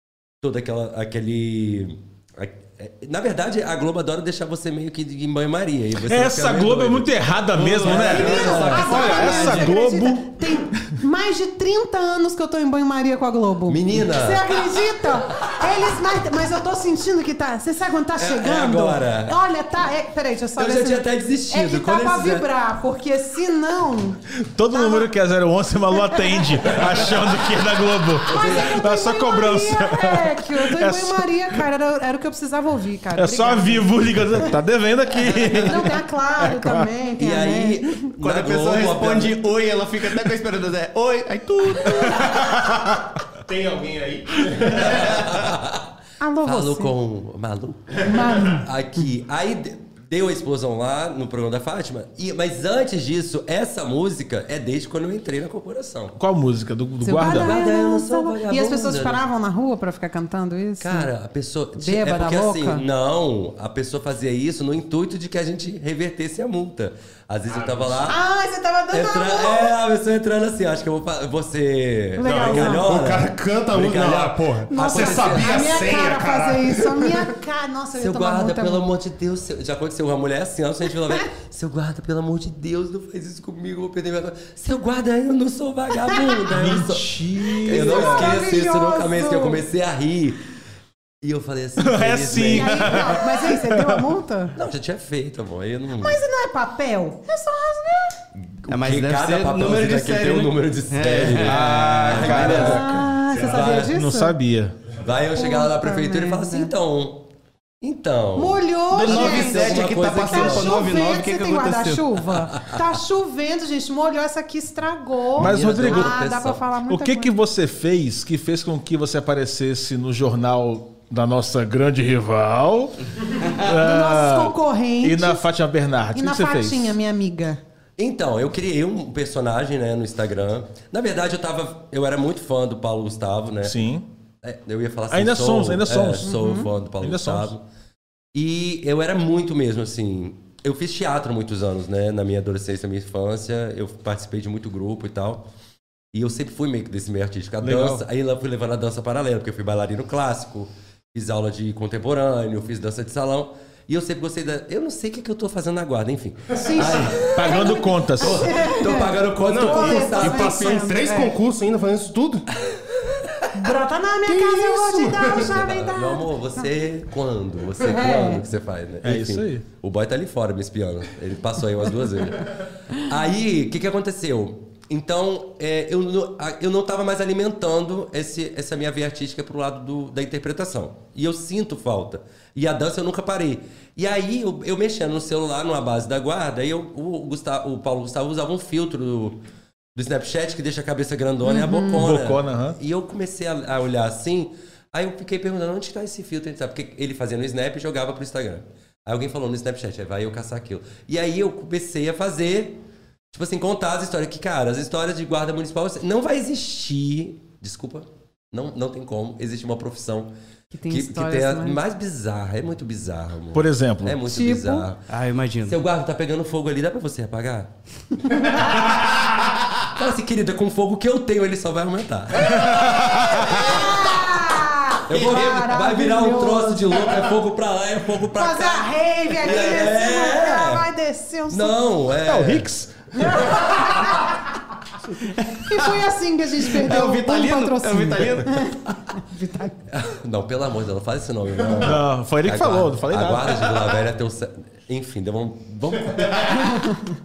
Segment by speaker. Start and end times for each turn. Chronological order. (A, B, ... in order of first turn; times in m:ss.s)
0:00.4-0:07.1 A
0:06.0-0:10.6 B
0:07.6-0:08.2 C
0:07.7-0:09.7 A
0:08.0-0:24.2 D
0:13.7-0:14.6 A
0:18.2-0:19.4 A
0:20.6-0:22.5 A
0:24.4-0:31.6 B
0:24.7-0:25.1 D
0:26.0-0:26.8 D
0:26.7-0:27.0 A
0:28.3-0:28.9 A
0:28.3-0:34.5 D
0:33.2-0:36.9 B
0:35.6-0:38.1 D
0:37.2-0:39.4 A
0:38.2-0:42.6 C
0:42.1-0:45.1 B
0:43.7-0:44.8 E
0:44.7-0:45.8 A
0:46.2-0:46.9 D
0:46.4-0:56.2 A
0:48.0-0:48.7 D
0:56.2-0:57.6 B
0:57.0-1:01.1 D
0:57.2-0:59.2 A
1:00.8-1:08.2 A
1:01.8-1:02.8 D
1:07.5-1:08.0 E
1:08.0-1:09.8 D
1:08.9-1:15.8 A
1:12.2-1:12.9 D
1:12.2-1:17.3 E
1:14.7-1:18.9 D
1:18.0-1:30.4 A
1:26.5-1:28.4 B
1:27.6-1:29.6 D
1:31.2-1:33.2 A
1:31.8-1:34.0 B
1:32.5-1:34.6 D
1:34.6-1:36.2 A
1:36.0-1:38.2 D
1:38.4-1:43.9 A
1:38.7-1:42.8 C
1:41.4-1:42.8 B
1:42.6-1:44.4 D
1:43.7-1:44.8 B
1:45.0-1:47.3 A
1:45.3-1:46.7 D
1:47.8-1:50.7 A
1:48.4-1:57.3 D
1:48.9-1:52.2 C
1:55.4-1:56.2 B
1:55.4-1:56.6 A
1:56.9-2:07.0 B
2:03.6-2:05.4 D
2:06.2-2:07.6 D
2:08.0-2:13.8 A
2:13.6-2:14.1 B
2:14.4-2:17.6 A
2:15.1-2:16.3 B
2:16.2-2:16.7 D
2:17.0-2:17.5 B
2:18.3-2:25.5 A
2:26.1-2:40.9 A
2:27.6-2:28.0 B
2:36.6-2:41.4 D
2:37.0-2:38.5 B
2:39.4-2:42.5 E
2:43.5-2:46.6 D
2:44.3-2:45.4 E
2:45.3-3:09.4 A
2:47.8-2:48.4 D
2:49.0-2:49.6 B
3:10.0-3:22.8 A
3:11.4-3:12.0 D
3:11.9-3:12.8 B
3:23.3-3:30.3 A
3:30.7-3:31.8 D
3:30.9-3:35.0 A
3:33.5-3:34.2 B
3:34.2-3:34.9 D
3:35.1-3:35.8 C
3:35.7-3:37.7 A
3:38.2-3:38.9 D
3:38.7-3:39.2 A
3:39.9-3:44.2 A
3:42.4-3:43.3 B
3:42.6-3:47.0 D
3:45.1-3:50.8 A
3:45.1-3:45.6 C
3:48.4-3:51.8 D
3:51.5-3:52.7 A
3:52.2-3:53.1 B
3:53.1-3:54.5 D
3:55.2-3:56.0 C
3:55.6-3:59.8 D
3:56.7-3:58.6 C
3:59.9-4:06.9 A
4:01.8-4:03.7 B
4:06.6-4:07.0 D